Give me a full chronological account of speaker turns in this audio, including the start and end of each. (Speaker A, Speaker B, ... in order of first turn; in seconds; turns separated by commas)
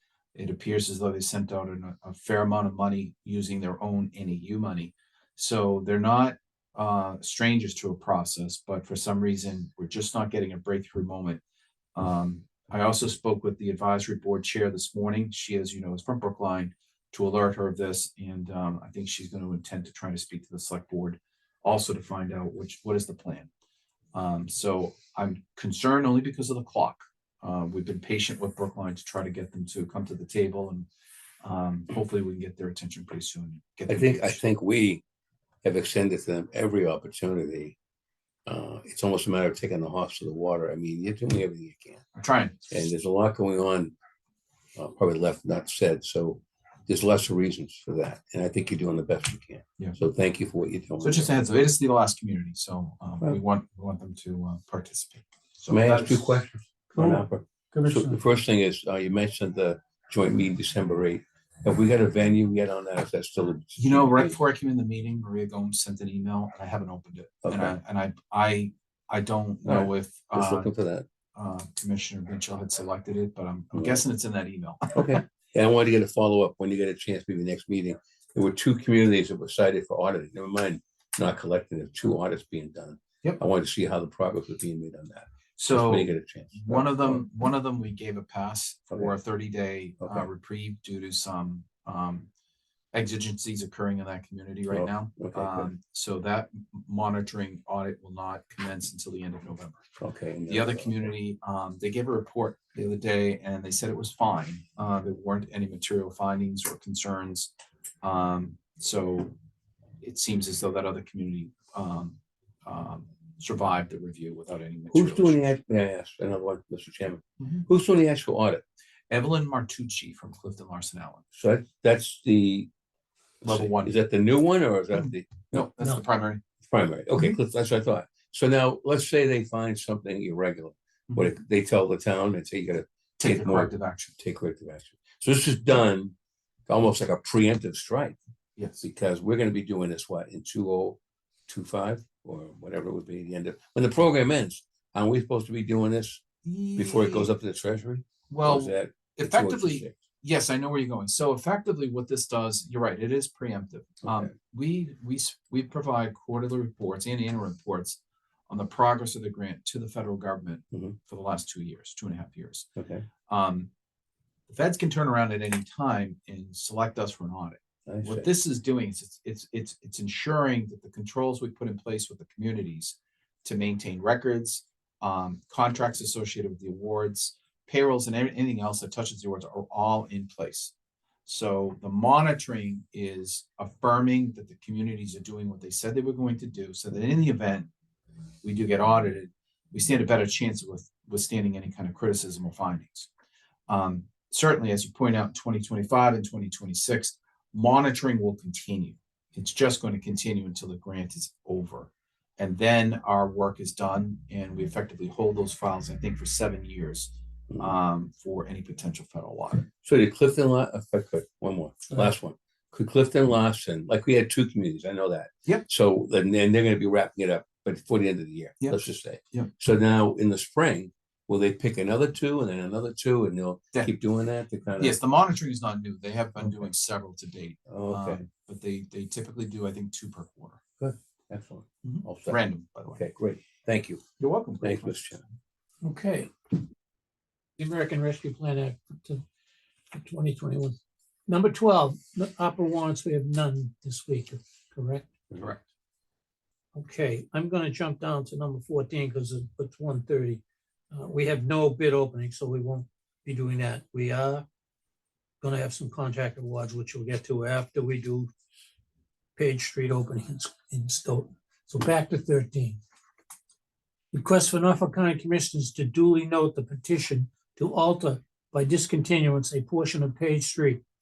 Speaker A: 0.3-11.4, Speaker A: 11.9-23.5, Speaker A: 24.1-30.9, Speaker A: 31.4-34.4, Speaker B: 33.9-35.0, Speaker B: 35.6-37.8, Speaker B: 38.5-42.0, Speaker A: 42.1-42.6, Speaker B: 42.7-43.9, Speaker B: 44.8-51.3, Speaker A: 51.0-56.4, Speaker B: 55.7-64.3, Speaker C: 56.9-58.2, Speaker A: 63.8-70.7, Speaker B: 67.4-67.8, Speaker B: 69.7-71.1, Speaker A: 71.3-75.2, Speaker B: 73.7-74.0, Speaker B: 74.9-87.2, Speaker A: 85.6-92.3, Speaker B: 90.0-90.3, Speaker A: 92.9-99.8, Speaker B: 94.7-95.7, Speaker B: 100.0-101.1, Speaker A: 100.5-107.5, Speaker A: 108.0-109.3, Speaker A: 110.0-115.4, Speaker B: 114.9-118.6, Speaker A: 119.1-121.2, Speaker B: 121.3-122.7, Speaker B: 123.4-125.7, Speaker A: 123.4-123.9, Speaker A: 125.0-126.4, Speaker B: 126.7-136.1, Speaker A: 133.2-134.2, Speaker B: 136.7-138.2, Speaker A: 138.6-138.8, Speaker B: 138.8-146.2, Speaker A: 146.4-147.3, Speaker B: 146.8-150.0, Speaker A: 148.3-162.7, Speaker B: 154.0-154.3, Speaker B: 162.8-163.1, Speaker A: 163.3-163.7, Speaker A: 164.5-180.7, Speaker B: 167.9-168.3, Speaker A: 181.3-187.7, Speaker A: 188.4-193.1, Speaker A: 193.7-209.7, Speaker B: 209.8-225.0, Speaker A: 218.6-219.5, Speaker A: 224.8-230.6, Speaker B: 227.7-228.2, Speaker B: 230.8-234.0, Speaker A: 231.8-233.0, Speaker A: 234.2-235.1, Speaker B: 234.6-235.2, Speaker C: 235.8-236.5, Speaker C: 237.6-239.2, Speaker C: 239.9-245.1, Speaker A: 245.3-245.6, Speaker C: 246.8-254.4, Speaker C: 255.4-258.3, Speaker C: 259.4-262.8, Speaker C: 264.1-270.8